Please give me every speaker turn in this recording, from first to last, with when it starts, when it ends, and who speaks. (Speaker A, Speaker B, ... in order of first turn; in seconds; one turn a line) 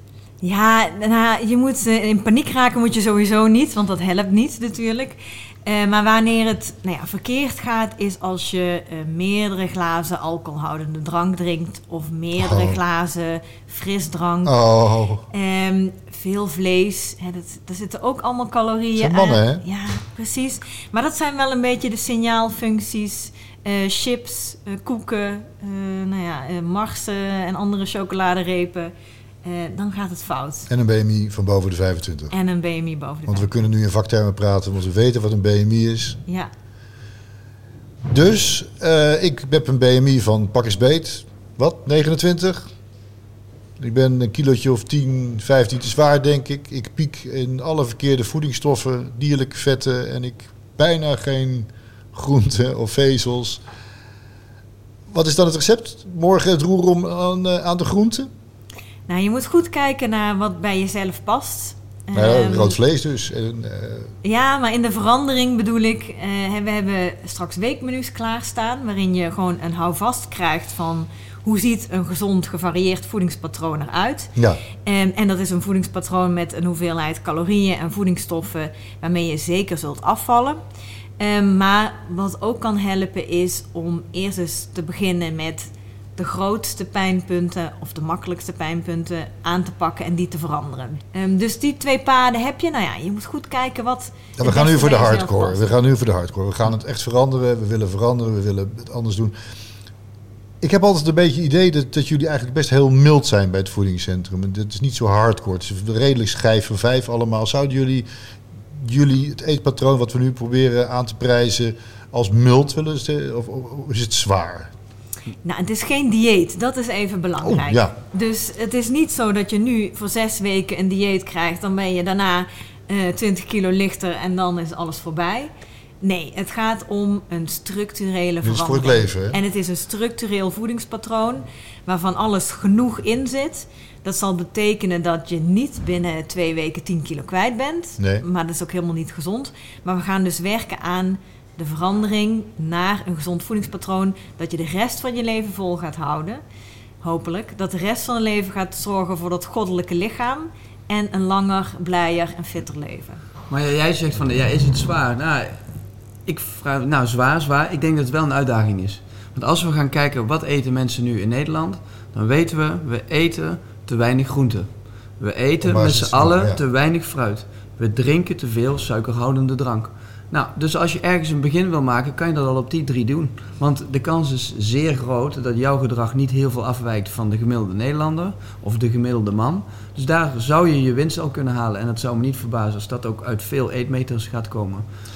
Speaker A: 0.4-14.6
Speaker B: 12.4-12.8
Speaker B: 14.4-15.2
Speaker A: 15.3-28.9
Speaker B: 19.0-19.6
Speaker A: 29.4-30.7
Speaker B: 30.7-32.3
Speaker A: 32.3-33.5
Speaker B: 33.3-36.2
Speaker B: 38.1-42.6
Speaker B: 43.8-53.6
Speaker B: 55.1-58.3
Speaker A: 59.1-62.8
Speaker B: 62.1-64.1
Speaker A: 64.2-80.6
Speaker B: 74.3-74.6
Speaker A: 81.2-95.6
Speaker B: 94.3-99.3
Speaker B: 100.6-108.1
Speaker B: 108.8-114.7
Speaker A: 115.4-125.5
Speaker B: 117.4-117.9
Speaker A: 126.0-146.4
Speaker B: 128.4-129.4
Speaker B: 138.0-138.2
Speaker A: 147.0-153.2
Speaker C: 153.5-155.6
Speaker C: 156.2-164.7
Speaker C: 165.2-184.8
Speaker B: 165.6-166.6